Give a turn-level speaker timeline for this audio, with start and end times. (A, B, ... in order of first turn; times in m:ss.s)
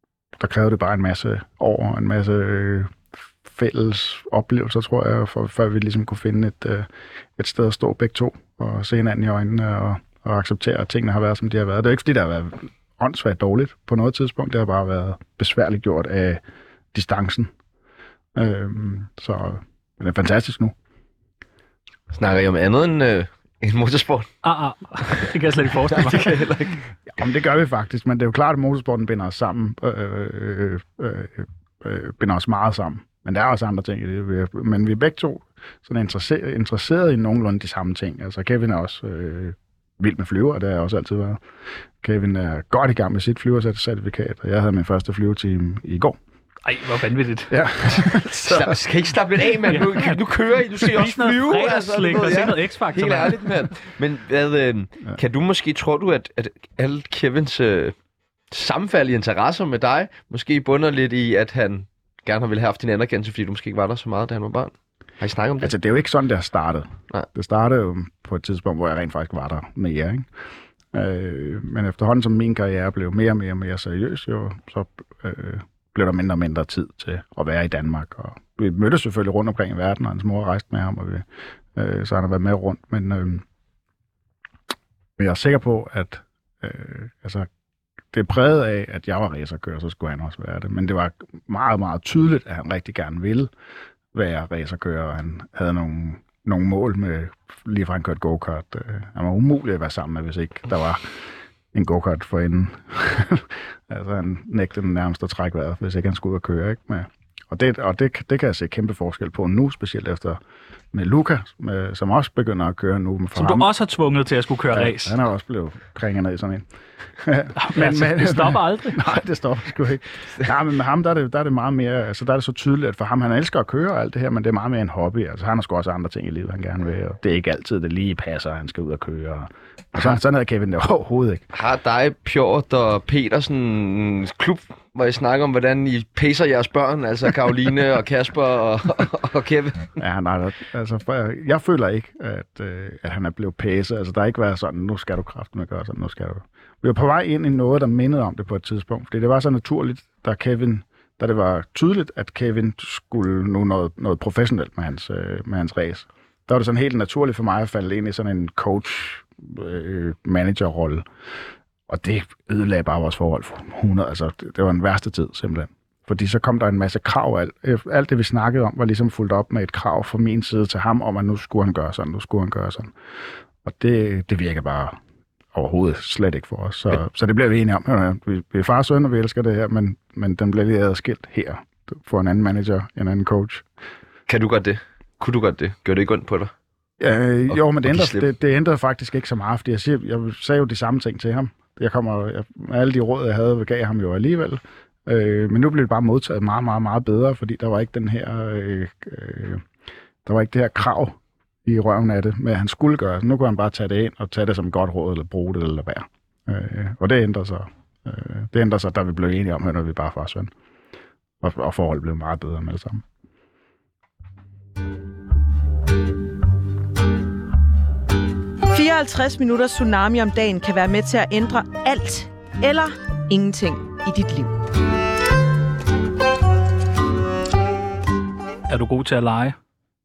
0:00.4-0:16.4 A
0:16.9-0:17.5 A
0:18.4-0:20.8 A
0:22.1-0:24.3 B
0:24.4-0:26.5 C
0:25.9-0:26.8 B
0:27.1-0:41.4 A
0:42.0-0:46.2 A
0:46.6-0:47.5 C
0:47.5-0:48.8 A
0:48.1-0:58.0 B
0:49.7-0:53.7 C
0:58.5-1:05.7 B
1:05.6-1:10.3 A
1:10.9-1:23.4 A
1:25.2-1:27.5 A
1:28.1-1:33.5 A
1:34.1-1:41.2 A
1:41.7-1:50.4 A
1:50.9-1:53.7 A
1:53.4-1:55.2 C
1:54.7-1:56.7 A
1:57.2-2:11.5 A
1:57.6-1:59.1 C
2:11.5-2:19.9 B
2:20.0-2:41.0 A
2:41.9-2:52.9 A
2:53.6-2:55.0 A
2:55.5-3:03.6 A
3:04.3-3:06.5 B
3:07.0-3:19.6 A
3:07.5-3:08.2 B
3:20.2-3:30.5 A
3:31.4-3:33.0 A
3:38.7-3:44.5 D
3:48.7-3:49.6 C